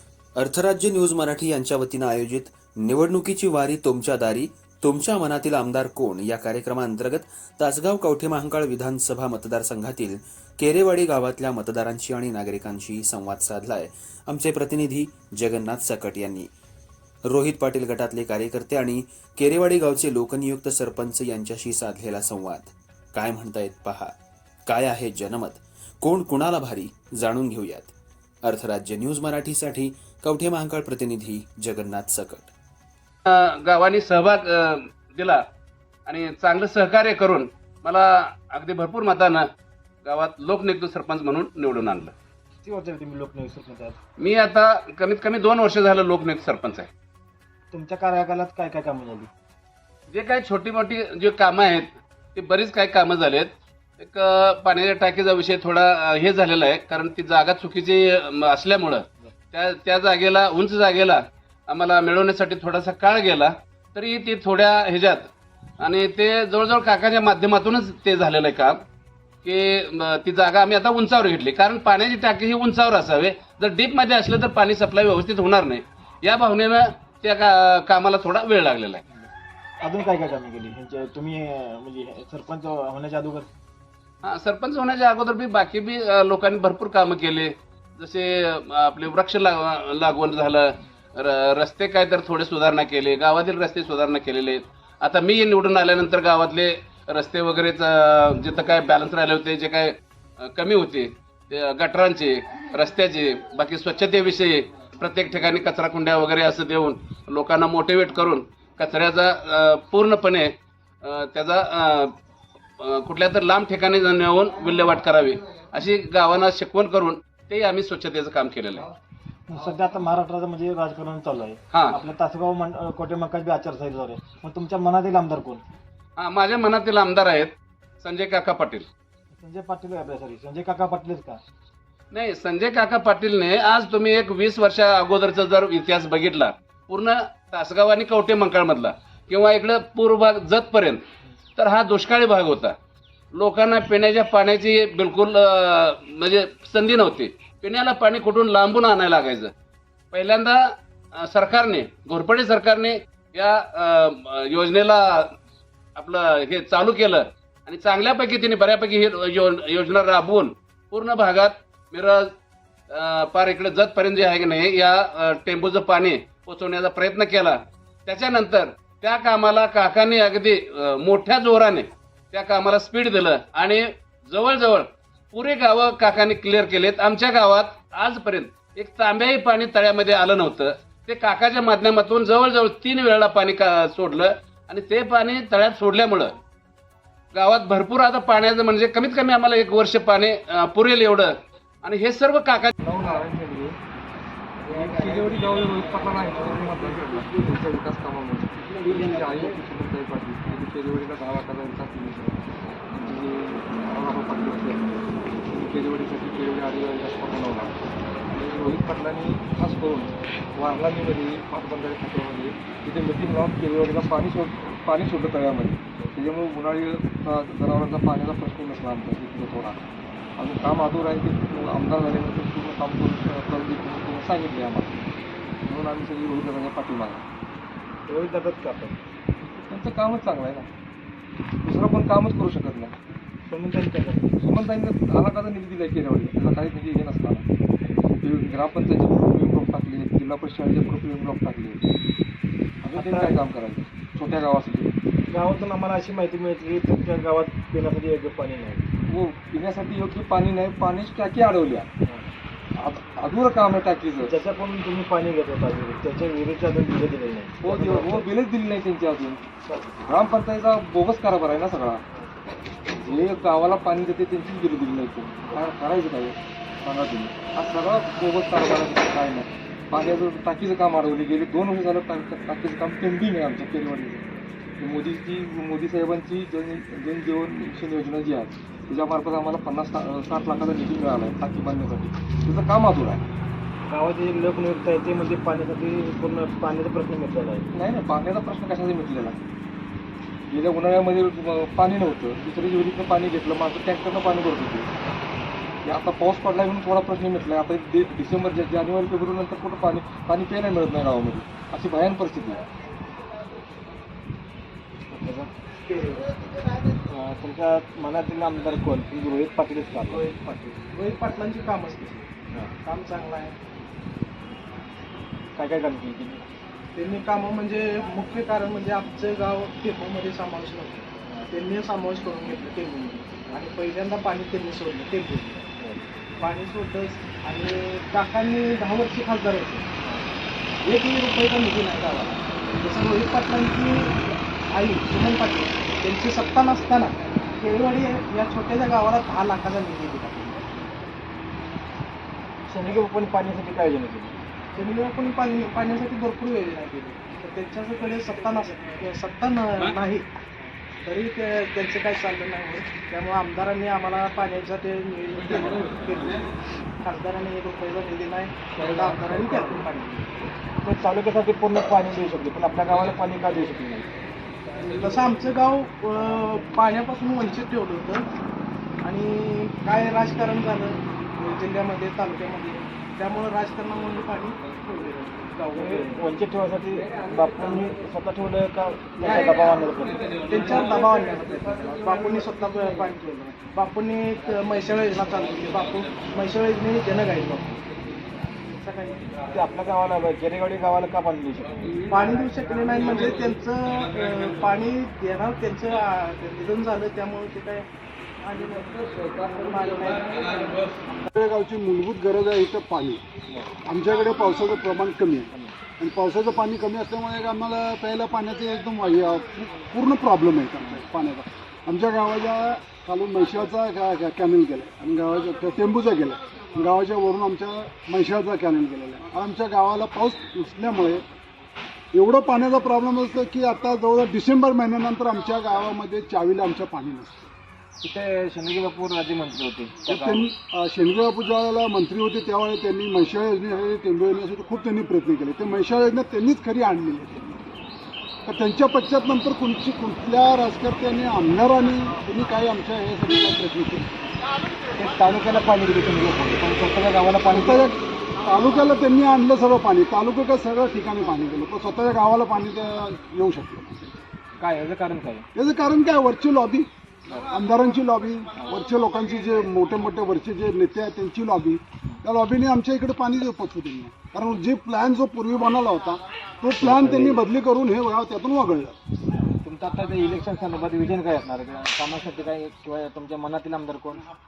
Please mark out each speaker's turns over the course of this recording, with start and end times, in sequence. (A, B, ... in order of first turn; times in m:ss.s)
0:00.4-0:16.5 A
0:17.2-0:24.1 A
0:24.7-0:32.5 A
0:33.3-0:35.4 B
0:36.1-0:39.5 B
0:40.0-0:42.1 B
0:42.6-0:44.0 C
0:44.2-0:46.9 B
0:47.7-0:49.3 C
0:50.1-1:05.2 B
1:05.8-1:08.8 B
1:09.4-1:19.0 B
1:19.8-1:23.5 C
1:24.2-1:40.0 B
1:40.5-1:50.5 B
1:51.0-1:52.1 B
1:52.8-1:58.9 B
1:59.5-2:05.6 C
2:06.2-2:08.9 B
2:09.4-2:11.4 C
2:12.1-2:21.0 B
2:21.6-2:22.7 B
2:23.4-2:29.5 B
2:30.1-2:30.6 B
2:31.3-2:35.3 B
2:36.0-2:42.3 B
2:42.9-3:06.4 B
3:07.3-3:11.3 B
3:11.8-3:12.7 B
3:12.8-3:13.8 D
3:14.6-3:27.8 D
3:28.3-3:39.8 D
3:40.4-3:45.1 D
3:45.6-3:47.2 D
3:48.1-3:49.0 C
3:49.4-3:50.7 D
3:51.6-3:53.0 D
3:53.5-3:54.3 C
3:54.4-3:57.5 D
3:58.2-4:01.8 D
4:02.8-4:04.9 D
4:02.9-4:03.4 C
4:05.3-4:08.8 C
4:09.1-4:11.9 D
4:12.8-4:14.4 D
4:14.2-4:18.3 C
4:17.6-4:19.4 D
4:19.7-4:20.1 C
4:20.0-4:22.0 D
4:23.0-4:34.3 D
4:34.8-4:43.2 D
4:43.9-4:47.7 C
4:47.7-4:49.4 D
4:50.5-4:54.9 D
4:55.8-5:02.6 D
5:05.1-5:05.5 C
5:05.9-5:06.2 E
5:07.1-5:10.3 C
5:10.1-5:12.2 E
5:12.8-5:13.5 E
5:15.6-5:16.4 C
5:17.0-5:25.6 E
5:25.8-5:26.0 C
5:26.4-5:29.8 E
5:30.8-5:34.1 E
5:34.7-5:40.7 E
5:42.7-5:44.3 C
5:44.8-5:50.2 E
5:51.0-5:56.4 E
5:57.0-6:00.5 E
6:00.8-6:04.1 C
6:04.8-6:08.2 E
6:09.0-6:16.1 E
6:15.7-6:20.6 C
6:20.4-6:27.8 E
6:28.7-6:29.3 E
6:29.5-6:32.1 C
6:32.1-6:37.8 E
6:38.4-6:40.8 E
6:41.3-6:43.2 F
6:43.9-7:01.2 F
7:02.1-7:07.5 F
7:08.0-7:10.5 C
7:10.1-7:17.7 F
7:18.4-7:24.3 F
7:25.0-7:28.0 C
7:27.5-7:34.0 F
7:34.6-7:35.5 C
7:35.6-7:36.9 F
7:37.5-7:49.0 F
7:46.8-7:47.4 C
7:49.6-7:54.2 C